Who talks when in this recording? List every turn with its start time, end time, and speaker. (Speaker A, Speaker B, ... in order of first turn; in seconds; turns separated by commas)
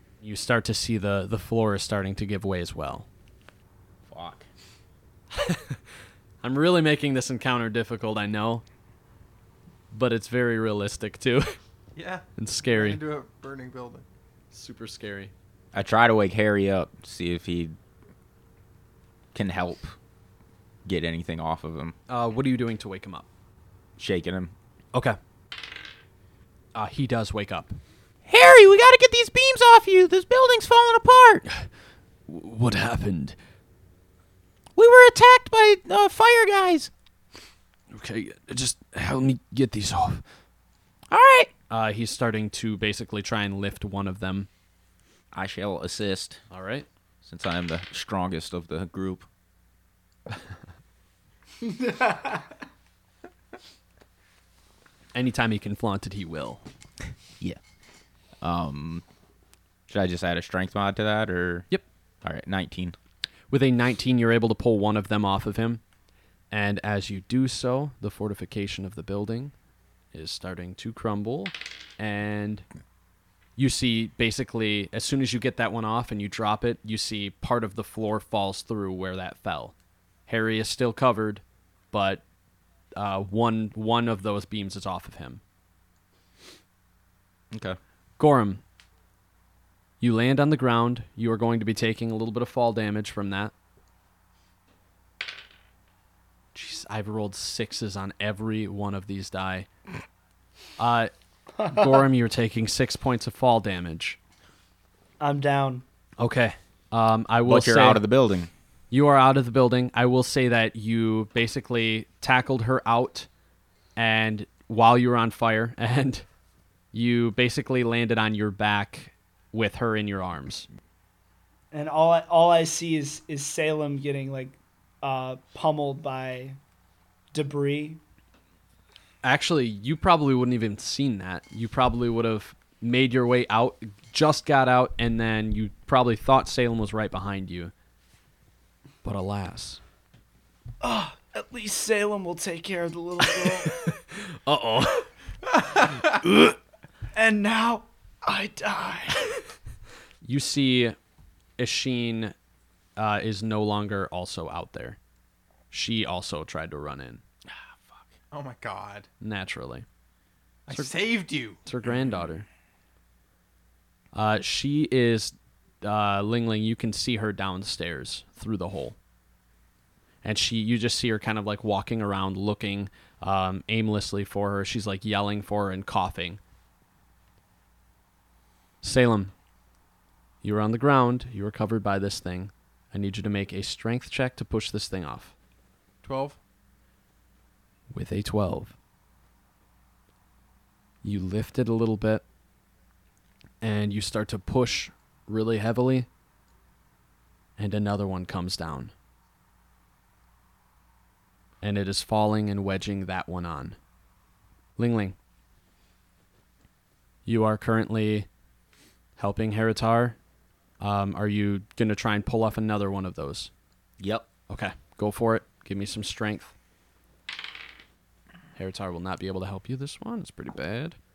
Speaker A: 0.2-3.1, Speaker B: 4.0-4.5, Speaker A: 5.3-5.8, Speaker A: 6.4-8.6, Speaker A: 9.9-11.6, Speaker C: 11.9-14.0, Speaker A: 12.4-13.0, Speaker A: 14.5-15.3, Speaker B: 15.7-17.8, Speaker B: 19.3-19.9, Speaker B: 20.8-21.9, Speaker A: 22.1-23.2, Speaker B: 24.0-24.5, Speaker A: 26.7-27.8, Speaker B: 28.2-31.4, Speaker A: 32.3-33.4, Speaker B: 34.8-36.9, Speaker A: 37.9-40.2, Speaker B: 41.1-41.5, Speaker A: 41.7-44.5, Speaker B: 45.3-46.4, Speaker A: 46.5-46.9, Speaker B: 47.2-49.3, Speaker D: 51.7-52.4, Speaker A: 55.1-56.6, Speaker B: 58.4-59.0, Speaker B: 59.9-61.6, Speaker B: 62.2-62.9, Speaker A: 63.5-65.8, Speaker A: 66.5-69.5, Speaker A: 70.1-72.6, Speaker A: 73.6-79.7, Speaker A: 80.3-82.2, Speaker A: 83.0-85.4, Speaker B: 87.5-87.8, Speaker A: 88.2-88.6, Speaker A: 90.0-93.5, Speaker A: 96.5-99.7, Speaker A: 100.8-101.1, Speaker D: 101.6-101.9, Speaker A: 101.6-104.2, Speaker D: 105.2-105.8, Speaker A: 106.2-108.0, Speaker B: 107.4-108.5, Speaker A: 108.9-113.3, Speaker A: 114.0-116.2, Speaker A: 116.9-120.7, Speaker D: 121.7-126.6, Speaker D: 127.3-128.0, Speaker A: 129.2-137.7, Speaker A: 139.0-139.8, Speaker D: 140.8-143.9, Speaker A: 143.5-145.1, Speaker A: 146.2-146.5, Speaker D: 147.1-149.3, Speaker A: 150.2-150.9, Speaker A: 151.6-152.3, Speaker A: 153.0-155.0, Speaker A: 155.7-157.2, Speaker B: 157.5-158.1, Speaker C: 158.3-159.1, Speaker A: 159.2-159.8, Speaker C: 160.7-161.6, Speaker A: 161.6-162.4, Speaker A: 164.1-168.9, Speaker A: 170.2-176.4, Speaker A: 178.8-179.3, Speaker A: 180.4-185.3, Speaker C: 186.0-186.4, Speaker A: 187.9-188.7, Speaker A: 191.0-192.2, Speaker A: 193.6-196.1, Speaker A: 197.6-198.9, Speaker A: 201.6-203.8, Speaker A: 204.8-205.2, Speaker A: 207.2-208.3, Speaker A: 209.2-210.2, Speaker A: 210.8-213.5, Speaker B: 214.0-214.3, Speaker A: 214.5-216.5, Speaker A: 218.6-220.9